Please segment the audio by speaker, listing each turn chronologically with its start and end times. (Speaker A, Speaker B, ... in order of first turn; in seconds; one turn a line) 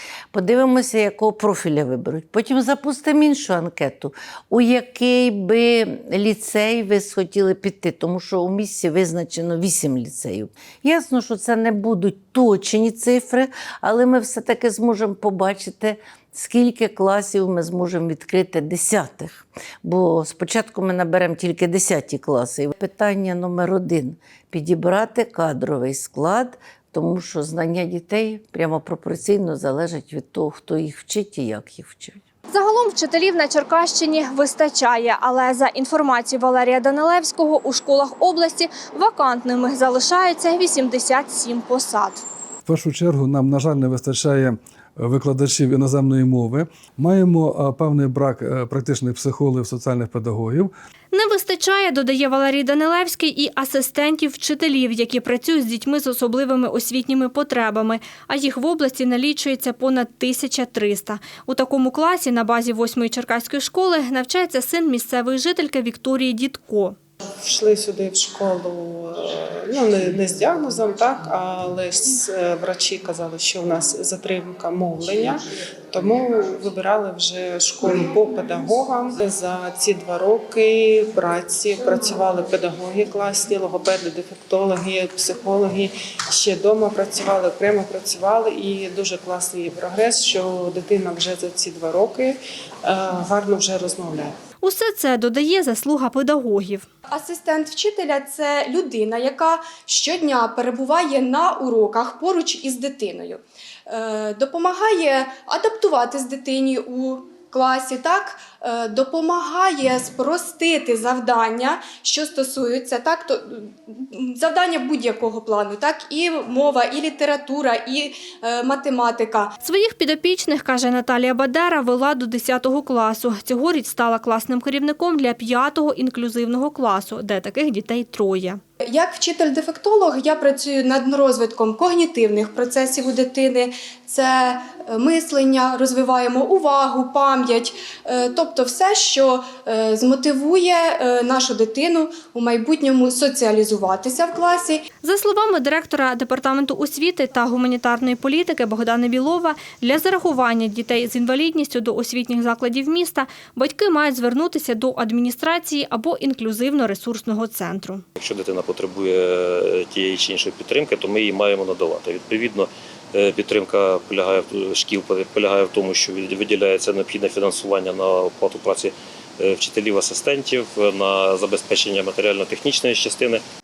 Speaker A: 0.3-32.2
Speaker B: 32.5-42.2
Speaker C: 42.7-50.7
Speaker B: 51.1-67.0
Speaker D: 67.5-75.4
Speaker D: 75.9-94.3
Speaker B: 94.6-96.9
Speaker E: 97.1-119.5
Speaker B: 119.6-128.6
Speaker E: 128.9-144.8
Speaker B: 145.0-158.0
Speaker F: 158.2-173.4